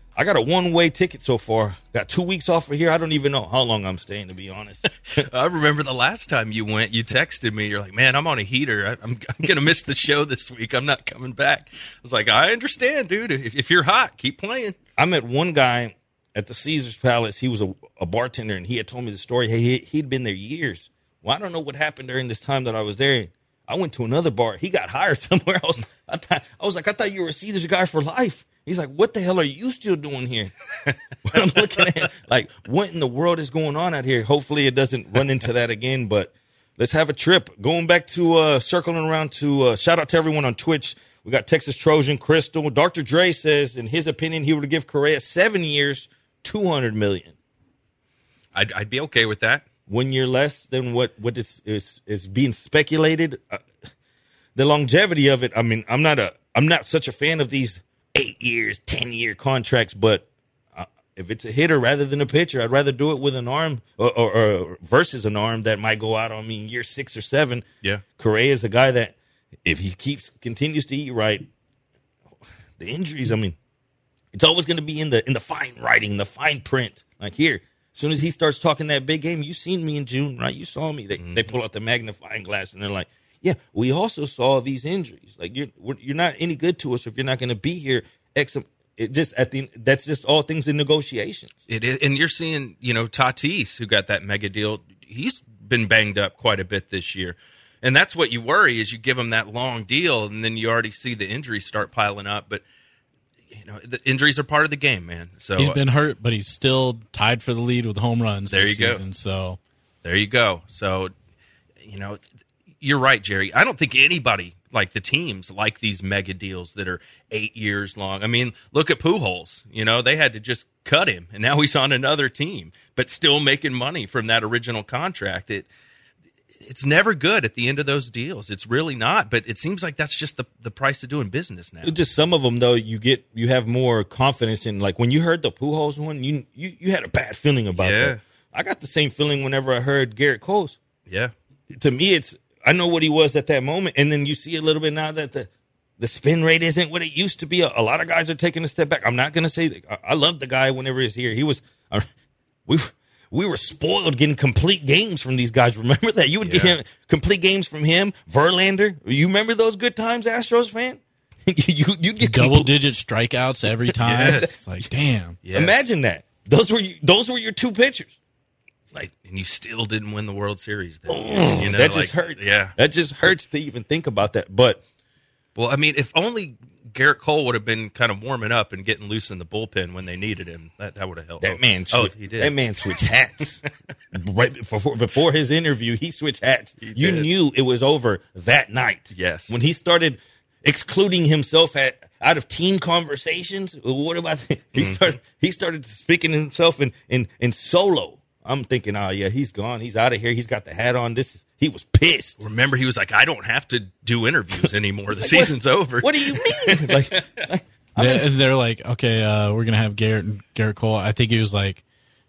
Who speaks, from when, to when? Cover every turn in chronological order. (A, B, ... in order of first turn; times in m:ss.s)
0:00.2-0:04.9 A
0:05.2-0:14.8 B
0:15.0-0:30.5 A
0:31.2-0:47.4 A
0:48.5-0:49.6 B
0:49.9-0:53.7 A
0:54.6-1:07.6 A
1:08.2-1:11.5 A
1:12.8-1:13.6 A
1:14.3-1:31.5 A
1:31.7-1:42.6 B
1:43.5-1:45.8 B
1:45.6-1:49.6 C
1:48.5-1:49.0 B
1:50.0-1:51.1 B
1:51.8-1:52.2 B
1:52.8-2:05.7 B
2:06.6-2:11.9 B
2:11.8-2:20.8 A
2:17.8-2:18.2 B
2:21.1-2:21.3 B
2:21.7-2:32.1 A
2:32.7-2:42.7 A
2:36.4-2:36.8 B
2:42.2-2:45.4 C
2:44.0-2:44.5 B
2:44.1-2:44.5 A
2:45.4-2:45.8 B
2:45.5-2:48.2 A
2:49.1-2:52.8 B
2:51.1-2:54.8 A
2:55.6-3:02.5 B
3:01.4-3:22.4 A
3:06.8-3:07.3 B
3:09.1-3:09.6 B
3:14.8-3:15.0 B
3:22.4-3:27.5 B
3:25.2-3:28.3 A
3:28.0-3:31.8 C